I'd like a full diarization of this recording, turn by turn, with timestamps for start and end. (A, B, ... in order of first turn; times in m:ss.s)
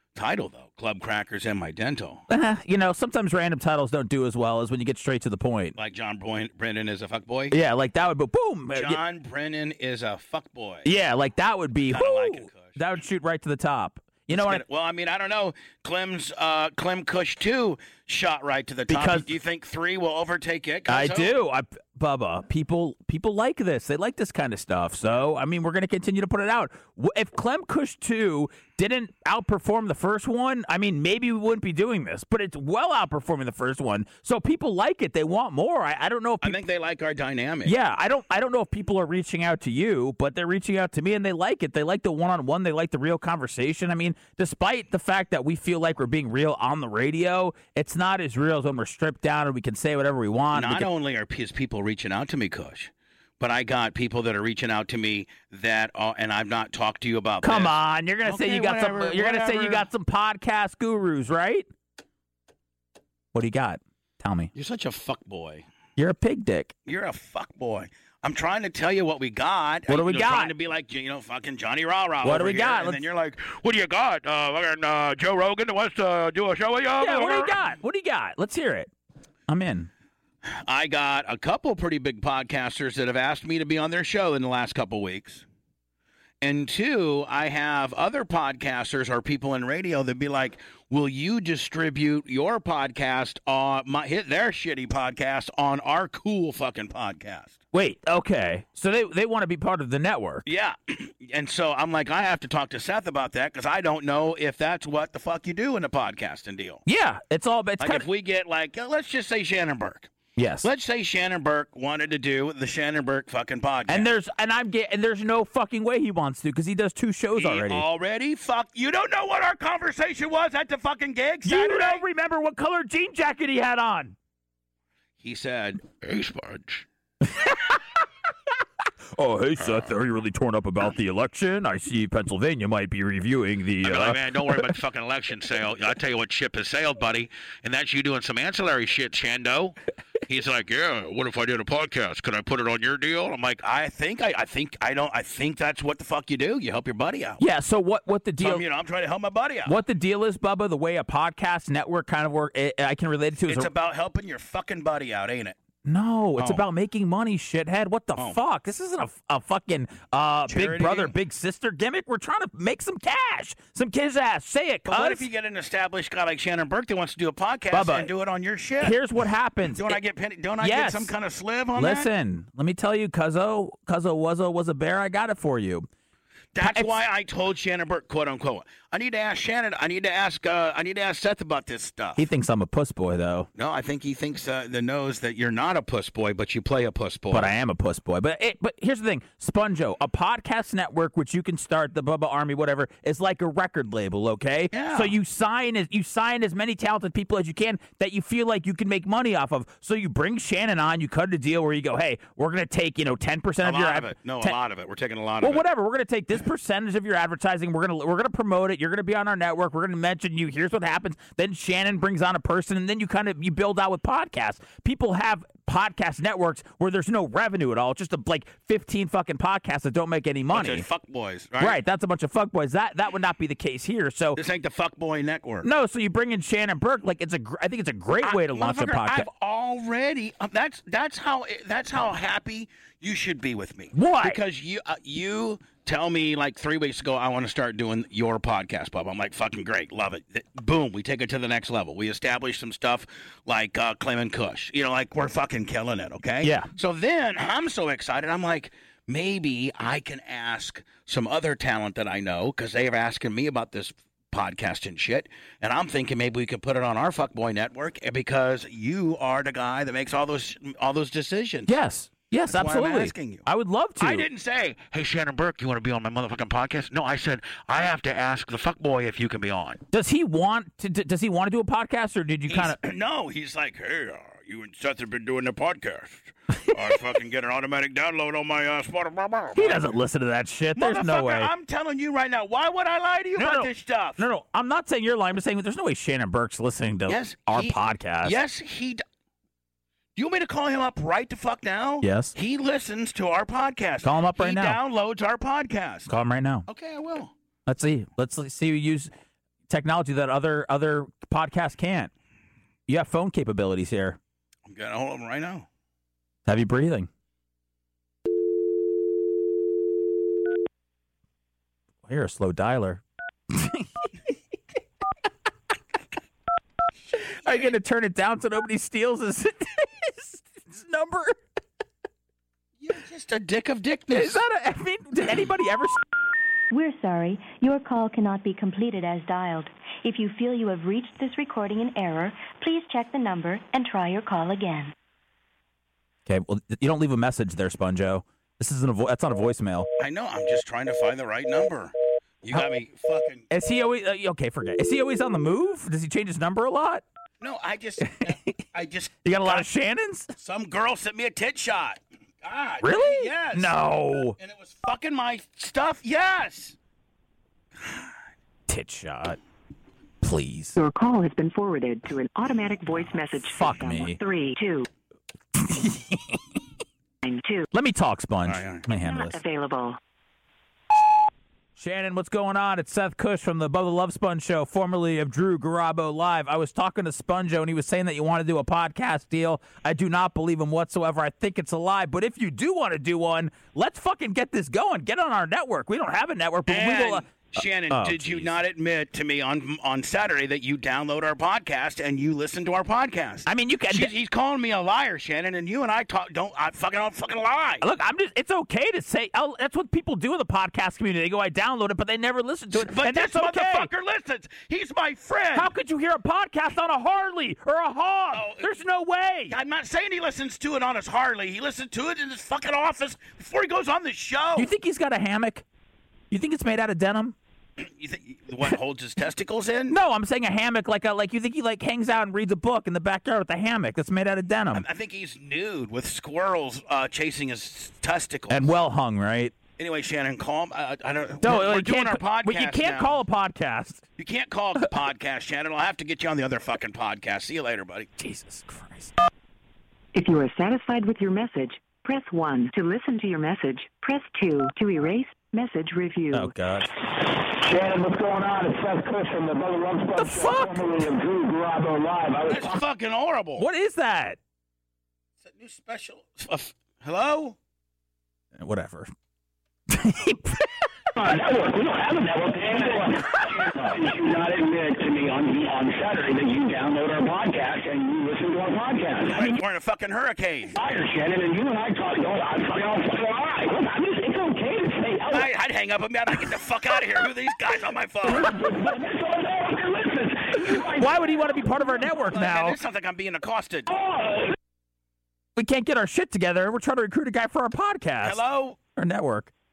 0:00.2-0:02.2 A
0:02.3-0:05.8 B
0:05.8-0:07.6 A
0:07.5-0:09.0 B
0:08.7-0:10.9 A
0:10.8-0:14.6 B
0:11.9-0:12.8 A
0:14.3-0:21.3 A
0:18.9-0:19.3 B
0:20.9-0:36.6 B
0:36.4-0:37.8 A
0:37.6-0:50.9 B
0:50.5-0:59.9 A
0:57.4-1:01.7 B
1:03.3-1:04.5 B
1:04.5-1:05.7 A
1:06.0-1:06.7 B
1:06.9-1:17.6 A
1:09.9-1:10.5 B
1:12.2-1:13.0 B
1:17.0-1:18.9 B
1:19.5-1:19.9 B
1:20.4-1:25.4 A
1:26.4-1:37.6 A
1:37.7-1:40.4 B
1:40.4-1:46.8 A
1:46.9-1:48.1 B
1:47.8-1:54.1 A
1:50.4-1:50.7 B
1:53.9-1:57.9 B
1:57.3-2:02.0 A
2:01.4-2:04.2 B
2:05.2-2:06.9 A
2:07.2-2:07.8 B
2:09.1-2:14.8 B
2:09.6-2:09.9 A
2:13.8-2:27.4 A
2:27.4-2:28.7 B
2:28.4-2:29.8 A
2:29.7-2:33.7 B
2:33.5-2:35.6 A
2:35.8-2:45.3 B
2:36.4-2:36.6 A
2:40.5-2:41.1 A
2:44.9-2:49.0 A
2:47.7-2:48.1 B
2:48.8-2:50.0 B
2:49.7-2:52.1 A
2:50.6-2:51.1 B
2:51.8-2:55.9 B
2:56.5-3:02.3 A
2:56.6-2:57.0 B
3:02.2-3:03.5 B
3:03.6-3:07.5 A
3:07.3-3:24.6 B
3:14.7-3:15.2 A
3:23.6-3:25.6 A
3:25.4-3:40.8 B
3:40.5-3:41.8 A
3:41.6-3:44.4 B
3:44.4-3:45.7 A
3:45.6-3:49.3 B
3:48.2-4:21.7 A
3:53.9-3:54.4 B
4:06.4-4:06.7 B
4:21.7-4:24.3 B
4:22.5-4:23.5 A
4:24.0-4:29.8 A
4:29.9-4:32.8 B
4:32.5-4:40.0 A
4:39.6-4:41.5 B
4:40.8-4:44.2 A
4:43.4-4:48.4 B
4:47.1-4:49.0 A
4:50.2-4:56.1 A
4:52.0-4:52.3 B
4:54.0-4:54.8 B
4:56.1-4:56.7 B
4:56.7-4:57.3 A
4:57.7-4:59.1 B
4:59.7-5:02.1 B
5:02.9-5:04.2 B
5:04.7-5:05.7 A
5:06.5-5:07.1 B
5:12.0-5:14.1 B
5:17.2-5:21.4 B
5:22.8-5:24.4 A
5:24.1-5:26.0 B
5:26.7-5:34.9 C
5:36.3-5:39.9 B
5:40.0-5:43.5 A
5:43.5-5:47.0 B
5:47.4-5:49.7 A
5:48.0-5:48.4 B
5:49.2-5:50.3 B
5:50.4-5:56.8 A
5:52.8-5:54.4 B
5:57.8-5:58.1 A
5:58.7-5:59.4 B
6:00.2-6:00.8 B
6:00.8-6:04.9 D
6:03.5-6:04.2 B
6:05.6-6:06.6 B
6:07.2-6:07.7 D
6:07.7-6:09.4 B
6:08.5-6:08.9 A
6:09.0-6:10.0 D
6:11.8-6:28.5 B
6:26.7-6:37.8 A
6:33.5-6:34.1 B
6:37.8-6:43.9 B
6:42.7-6:45.7 A
6:45.6-6:49.5 B
6:48.3-6:48.7 A
6:49.5-6:54.7 A
6:54.6-6:55.6 B
6:56.3-6:57.4 B
6:57.8-7:00.0 A
6:59.9-7:04.8 B
7:04.7-7:08.7 A
7:08.5-7:09.6 B
7:09.8-7:13.2 A
7:11.4-7:14.0 B
7:14.2-7:18.1 A
7:18.2-7:19.1 B
7:20.1-7:26.5 D
7:26.3-7:26.9 B
7:27.3-7:32.8 E
7:30.2-7:31.1 B
7:32.5-7:33.7 A
7:33.6-7:34.4 B
7:35.4-7:37.6 A
7:38.6-7:39.1 B
7:39.9-7:40.9 B
7:41.2-7:49.6 E
7:49.3-7:50.7 A
7:50.8-7:55.5 E
7:55.3-7:58.6 A
7:58.3-8:01.5 E
8:01.0-8:02.8 B
8:02.3-8:03.9 A
8:03.9-8:04.5 E
8:05.6-8:08.4 B
8:08.2-8:08.8 A
8:09.0-8:09.5 B